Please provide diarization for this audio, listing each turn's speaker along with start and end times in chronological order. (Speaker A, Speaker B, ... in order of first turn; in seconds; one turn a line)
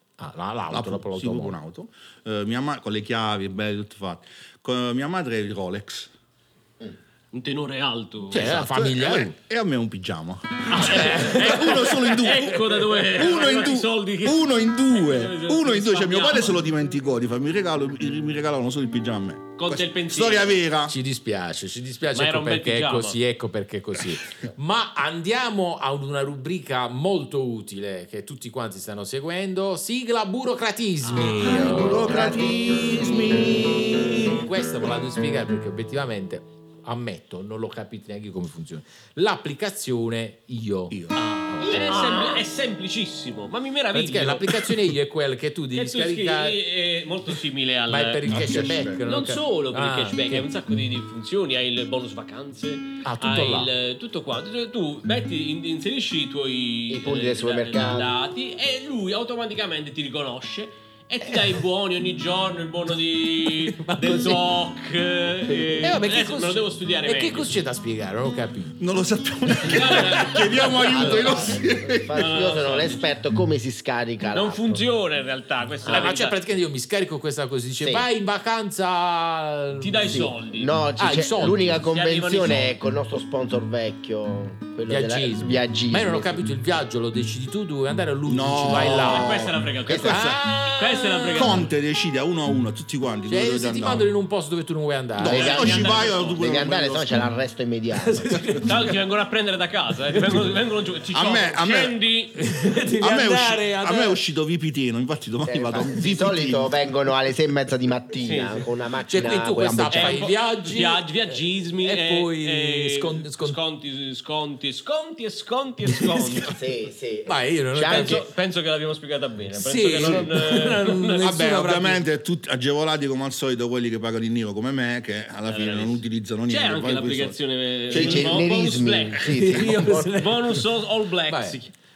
Speaker A: 0.2-1.6
Speaker B: 0.7-6.1
Speaker C: 7.3-8.6
Speaker A: 8.3-9.3
Speaker B: 8.3-20.9
Speaker C: 10.7-16.6
Speaker A: 10.7-12.2
Speaker C: 19.6-20.6
Speaker A: 20.9-32.3
Speaker C: 22.1-23.2
Speaker B: 31.4-34.5
Speaker D: 31.4-33.9
Speaker A: 34.1-41.0
Speaker B: 40.9-41.2
Speaker C: 41.1-44.7
Speaker A: 41.5-42.2
Speaker A: 43.9-46.6
Speaker C: 45.7-67.5
Speaker A: 47.9-50.5
Speaker B: 48.3-49.0
Speaker A: 53.0-53.7
Speaker D: 56.9-58.1
Speaker A: 63.6-64.4
Speaker A: 65.8-68.8
Speaker B: 68.8-72.5
Speaker C: 69.6-73.0
Speaker A: 69.7-71.2
Speaker D: 70.9-74.8
Speaker C: 74.3-76.4
Speaker A: 75.8-80.2
Speaker D: 77.8-78.1
Speaker C: 79.8-80.8
Speaker D: 80.1-86.4
Speaker A: 81.0-81.9
Speaker C: 81.6-82.7
Speaker A: 84.9-89.3
Speaker B: 88.2-90.4
Speaker C: 88.7-91.7
Speaker D: 89.9-90.2
Speaker A: 90.0-91.6
Speaker B: 91.3-94.1
Speaker A: 93.3-95.5
Speaker B: 95.2-97.3
Speaker D: 95.3-98.6
Speaker C: 95.3-96.5
Speaker A: 98.0-98.9
Speaker C: 98.6-102.5
Speaker B: 101.1-102.0
Speaker A: 102.4-104.2
Speaker B: 103.0-106.7
Speaker D: 105.4-110.2
Speaker C: 108.2-108.7
Speaker A: 109.1-111.1
Speaker B: 109.6-110.0
Speaker C: 109.9-116.6
Speaker A: 111.8-113.6
Speaker A: 115.9-116.3
Speaker D: 116.4-118.2
Speaker A: 117.2-118.2
Speaker C: 117.8-121.4
Speaker A: 119.5-122.0
Speaker B: 121.2-128.8
Speaker C: 125.5-131.7
Speaker D: 127.9-130.1
Speaker A: 129.2-130.7
Speaker A: 131.3-131.6